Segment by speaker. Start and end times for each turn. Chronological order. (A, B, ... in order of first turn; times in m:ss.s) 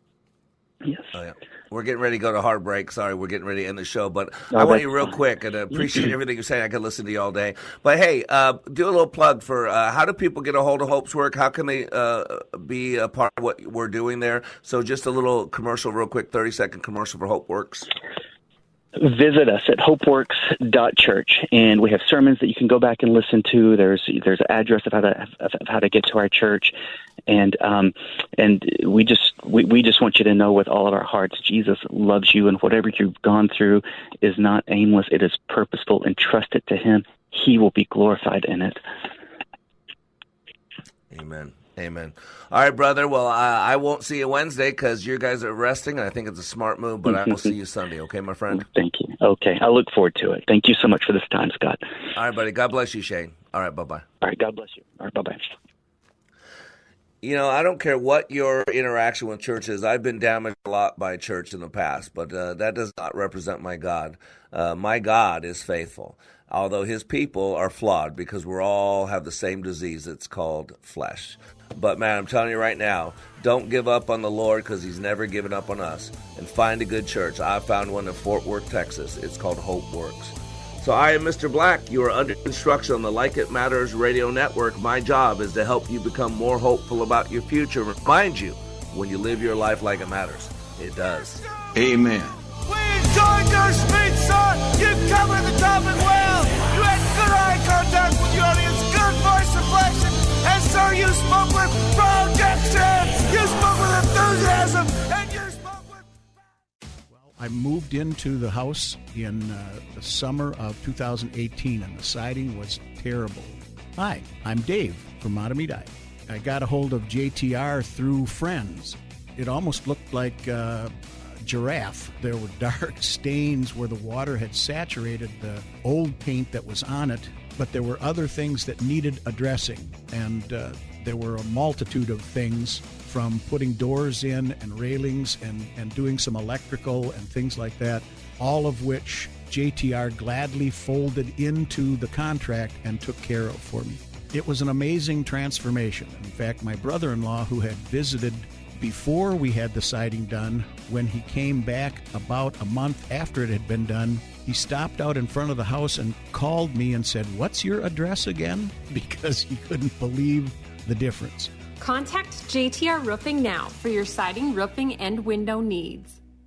0:01.1-0:17.9 A
0:04.5-0:05.2 B
0:19.0-0:26.8 B
0:27.3-0:38.8 B
0:41.1-0:48.7 A
0:47.1-0:47.5 B
0:48.5-0:51.8 B
0:52.2-0:54.1 A
0:54.2-0:55.4 B
0:57.2-1:31.4 A
1:31.8-1:46.0 C
1:47.1-2:41.5 D
2:41.8-2:46.2 E